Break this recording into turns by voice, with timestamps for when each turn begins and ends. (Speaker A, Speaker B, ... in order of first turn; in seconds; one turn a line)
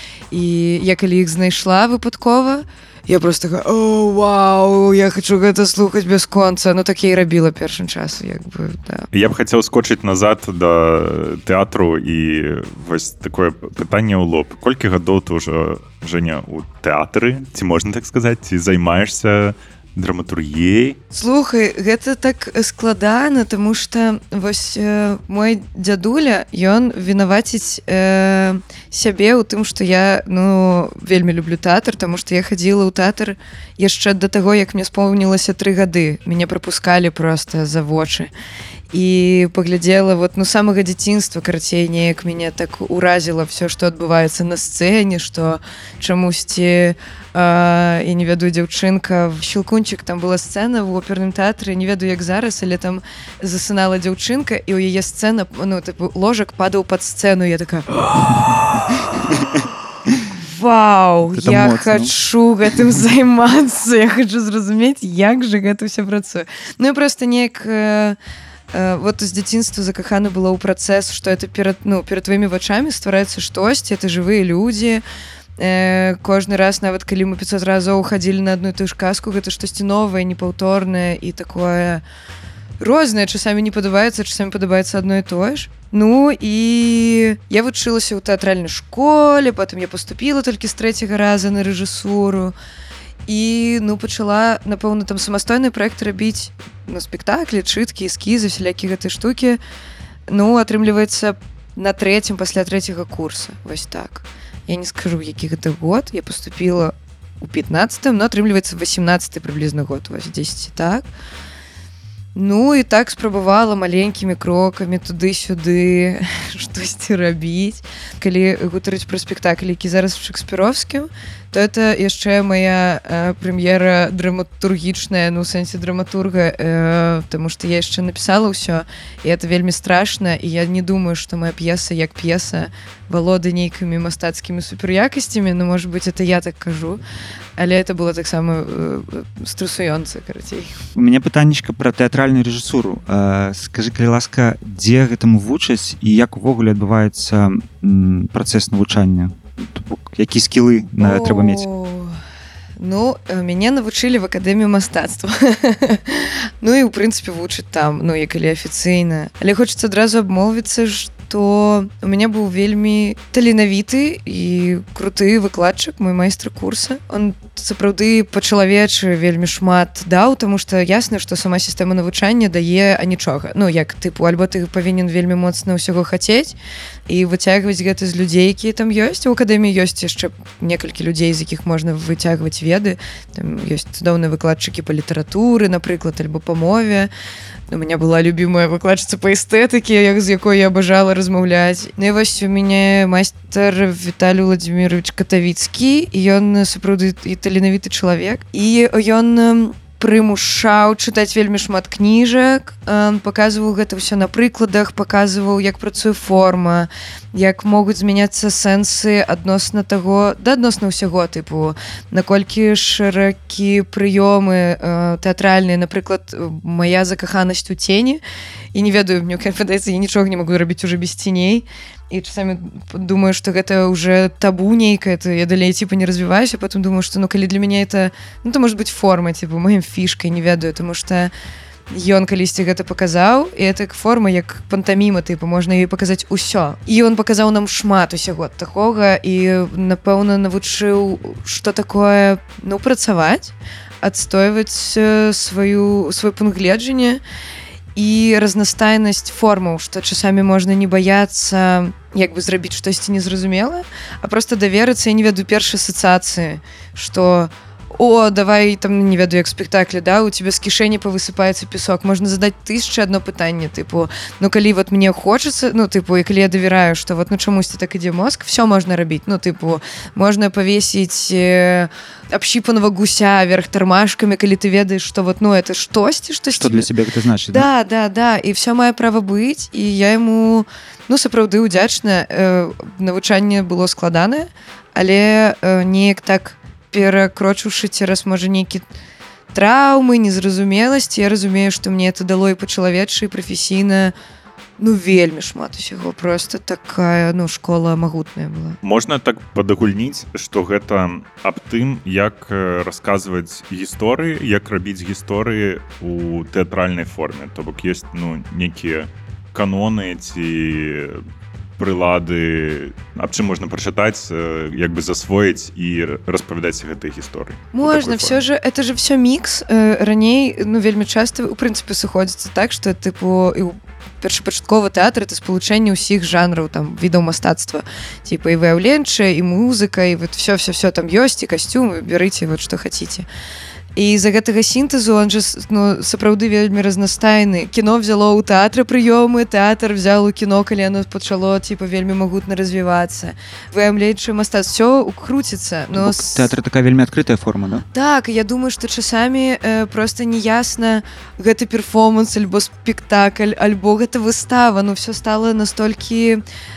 Speaker A: 0.3-9.1
Speaker B: 9.1-21.0
Speaker A: 21.1-38.3
Speaker A: 38.9-57.9
Speaker A: 60.4-68.2
Speaker C: 61.3-62.1
Speaker A: 68.7-75.0
Speaker A: 75.6-82.0
Speaker A: 82.8-92.5
Speaker A: 93.3-99.6
Speaker A: 100.3-111.1
Speaker A: 112.3-137.0
Speaker A: 137.6-140.7
Speaker C: 140.9-151.7
Speaker A: 151.0-152.2
Speaker A: 152.8-176.6
Speaker A: 177.1-187.1
Speaker A: 187.7-218.2
Speaker A: 218.7-231.3
Speaker A: 231.9-247.2
Speaker A: 247.9-276.9
Speaker C: 276.5-277.7
Speaker A: 277.5-288.9
Speaker A: 289.5-294.1
Speaker A: 294.8-298.8
Speaker B: 298.8-311.2
Speaker B: 311.8-318.4
Speaker A: 317.7-333.3
Speaker A: 333.9-346.5
Speaker C: 345.9-347.9
Speaker A: 347.9-356.4